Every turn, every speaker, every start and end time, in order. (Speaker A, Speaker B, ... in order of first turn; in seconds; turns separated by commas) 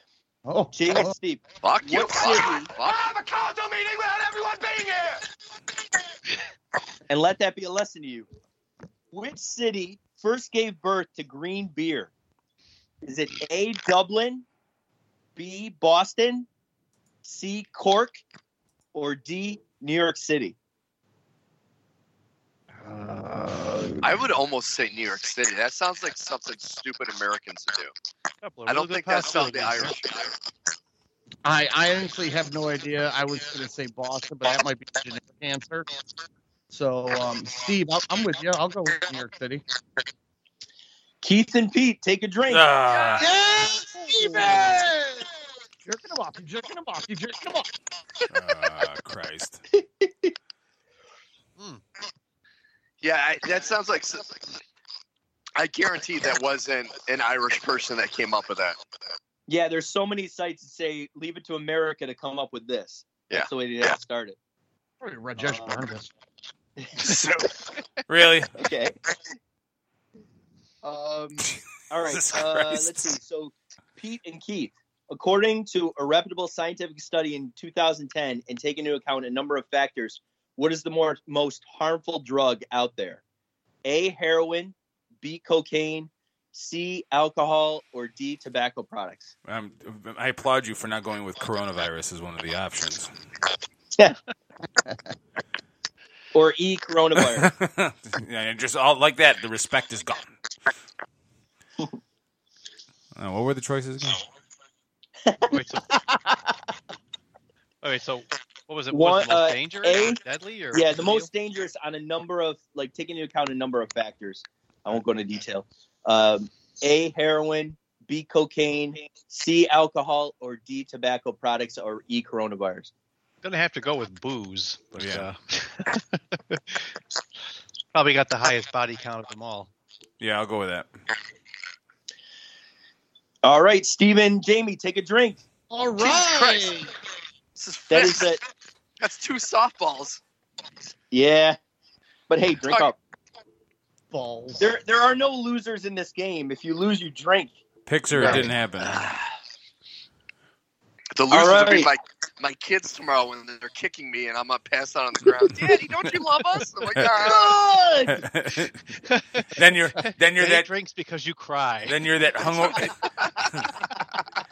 Speaker A: 0.5-1.1, Speaker B: 0.7-2.7, Speaker C: 1.6-3.0, Speaker D: 2.7-5.2, Speaker B: 7.1-8.3, Speaker B: 9.1-12.1, Speaker B: 13.0-14.4, Speaker B: 15.3-16.5, Speaker B: 17.2-18.2, Speaker B: 18.9-20.5, Speaker A: 22.8-24.2, Speaker C: 24.0-27.9, Speaker E: 28.4-29.9, Speaker C: 28.6-30.3, Speaker A: 31.4-35.9, Speaker A: 36.7-39.6, Speaker B: 41.2-42.7, Speaker F: 42.5-43.3, Speaker A: 43.2-45.3, Speaker A: 45.8-47.7, Speaker F: 48.3-49.6, Speaker B: 49.7-50.3, Speaker C: 53.0-54.4, Speaker C: 55.6-58.8, Speaker B: 59.5-64.3, Speaker C: 63.3-64.0, Speaker A: 65.0-66.1, Speaker B: 65.4-65.8, Speaker B: 66.8-67.2, Speaker F: 67.0-67.5, Speaker F: 68.1-68.5, Speaker B: 68.6-68.9, Speaker B: 70.8-83.2, Speaker F: 72.1-73.1, Speaker B: 83.8-89.3, Speaker F: 89.5-93.1, Speaker B: 96.3-97.5, Speaker F: 97.2-100.3, Speaker F: 103.2-104.2, Speaker E: 105.5-106.0, Speaker E: 107.8-111.3, Speaker B: 108.9-110.2, Speaker B: 110.7-122.9, Speaker E: 123.4-126.8, Speaker F: 124.9-125.3, Speaker E: 127.9-129.7, Speaker F: 130.2-130.9, Speaker B: 133.4-135.4, Speaker A: 135.7-136.9, Speaker C: 136.0-136.7, Speaker C: 137.6-138.3, Speaker B: 137.9-138.4, Speaker C: 139.0-140.2, Speaker B: 141.1-141.6, Speaker B: 142.3-143.0, Speaker A: 144.1-144.7, Speaker B: 144.6-147.5, Speaker F: 147.8-149.0, Speaker A: 148.1-148.5, Speaker B: 148.2-148.4, Speaker C: 151.2-157.6, Speaker B: 151.3-151.9, Speaker B: 157.2-158.1, Speaker A: 157.3-157.9, Speaker F: 158.1-158.8, Speaker E: 159.0-162.1, Speaker F: 159.5-160.7, Speaker F: 161.9-162.9, Speaker C: 162.4-163.5